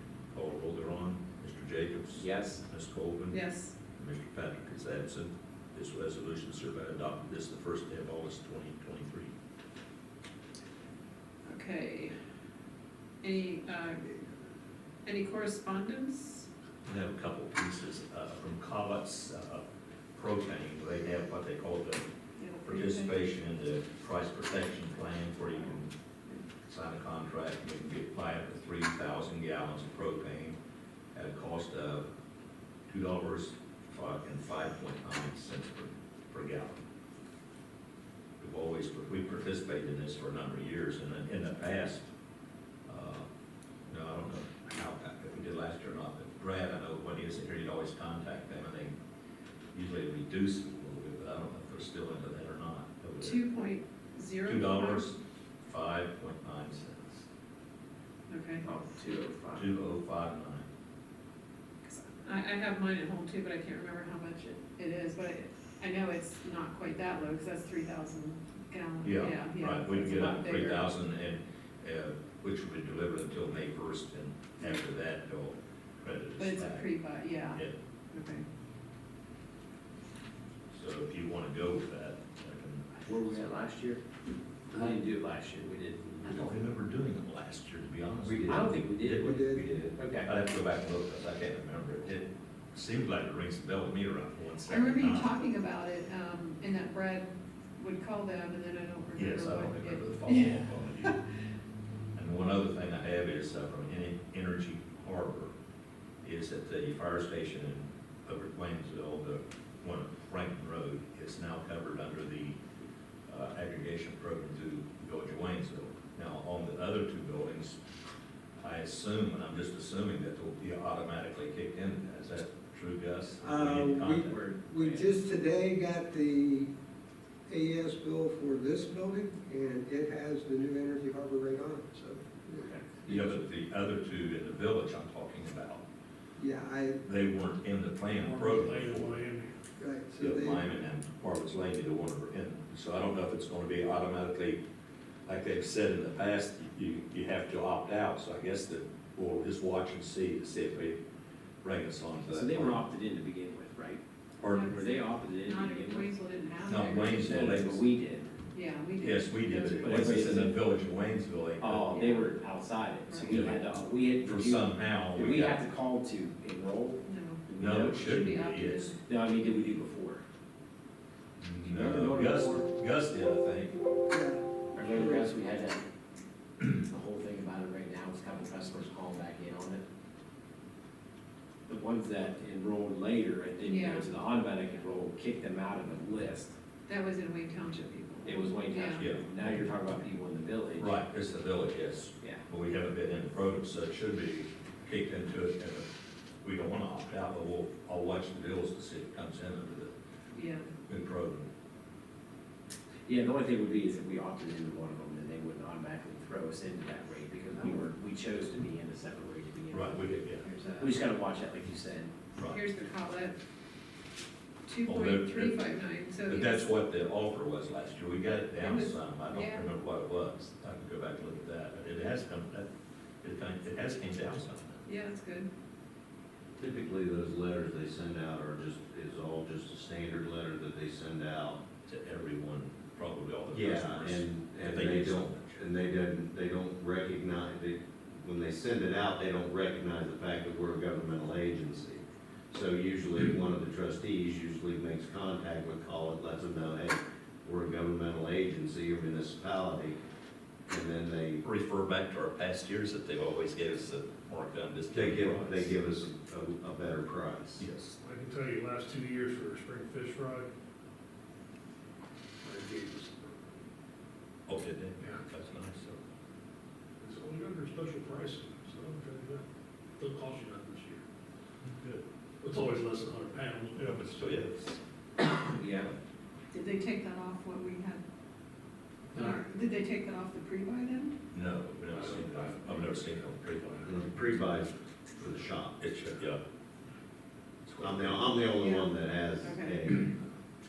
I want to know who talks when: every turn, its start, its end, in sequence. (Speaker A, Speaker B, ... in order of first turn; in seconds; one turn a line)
Speaker A: 0.3-3.4
Speaker B: 2.2-2.6
Speaker C: 3.3-3.7
Speaker A: 3.9-9.3
Speaker C: 11.5-12.1
Speaker C: 13.2-14.2
Speaker C: 15.0-16.5
Speaker A: 16.8-22.0
Speaker C: 22.4-23.1
Speaker A: 22.6-25.9
Speaker A: 26.7-30.6
Speaker A: 31.1-32.1
Speaker A: 32.9-36.8
Speaker A: 38.4-42.0
Speaker A: 42.9-43.2
Speaker A: 43.9-48.9
Speaker A: 49.7-53.4
Speaker C: 53.2-55.1
Speaker A: 54.4-57.3
Speaker C: 58.3-58.6
Speaker B: 58.6-59.6
Speaker A: 59.5-60.6
Speaker C: 61.8-70.9
Speaker A: 69.0-76.9
Speaker C: 76.4-78.4
Speaker A: 80.7-82.8
Speaker B: 83.0-84.0
Speaker B: 84.8-86.3
Speaker A: 86.2-95.3
Speaker B: 88.4-89.4
Speaker D: 89.2-89.6
Speaker B: 89.9-90.3
Speaker C: 94.7-101.2
Speaker A: 99.2-101.2
Speaker A: 102.2-105.5
Speaker A: 106.2-112.6
Speaker A: 113.3-117.8
Speaker A: 118.6-124.3
Speaker D: 123.4-126.7
Speaker B: 124.3-125.0
Speaker D: 127.5-133.3
Speaker A: 133.1-135.8
Speaker D: 136.4-137.0
Speaker A: 137.0-139.1
Speaker E: 138.1-139.5
Speaker D: 139.8-140.7
Speaker A: 140.2-144.6
Speaker A: 145.3-151.0
Speaker A: 151.6-152.8
Speaker B: 152.3-154.0
Speaker A: 154.4-154.8
Speaker C: 154.4-157.7
Speaker B: 154.7-156.1
Speaker A: 156.7-157.8
Speaker B: 157.0-158.3
Speaker C: 158.5-160.5
Speaker A: 159.0-161.9
Speaker B: 159.8-160.5
Speaker B: 161.6-168.3
Speaker C: 161.9-162.3
Speaker C: 163.1-163.5
Speaker A: 163.3-163.6
Speaker A: 164.2-165.6
Speaker C: 167.0-169.0
Speaker A: 167.6-168.9
Speaker B: 169.0-170.2
Speaker A: 171.4-173.7
Speaker B: 171.6-172.7
Speaker D: 174.1-175.3
Speaker B: 174.7-175.8
Speaker B: 176.8-179.8
Speaker B: 181.7-186.5
Speaker C: 183.6-184.1
Speaker C: 186.9-189.1
Speaker B: 188.2-190.9
Speaker A: 190.8-195.8
Speaker A: 196.4-199.9
Speaker C: 200.3-200.7
Speaker A: 200.8-201.5
Speaker B: 203.1-212.1
Speaker A: 209.7-210.4
Speaker C: 212.4-213.3
Speaker C: 214.7-216.6
Speaker A: 214.8-215.6
Speaker A: 216.2-222.7
Speaker C: 218.6-219.7
Speaker A: 223.2-224.8
Speaker C: 224.8-225.5
Speaker F: 226.6-231.6
Speaker A: 231.8-235.6
Speaker F: 233.5-250.0
Speaker F: 250.7-251.4
Speaker A: 251.4-255.7
Speaker F: 254.9-257.6
Speaker A: 257.6-258.0
Speaker E: 258.0-260.5
Speaker E: 262.4-263.4
Speaker A: 264.5-266.0
Speaker E: 267.0-269.4
Speaker E: 270.0-271.0
Speaker E: 271.8-274.2
Speaker A: 273.8-275.6
Speaker B: 275.6-275.9
Speaker C: 276.5-278.0
Speaker E: 279.1-279.4
Speaker C: 279.1-281.2
Speaker A: 281.3-283.9
Speaker E: 281.9-283.0
Speaker F: 283.8-285.8
Speaker A: 285.8-286.4
Speaker A: 287.7-288.2
Speaker F: 287.8-290.1
Speaker C: 288.6-289.9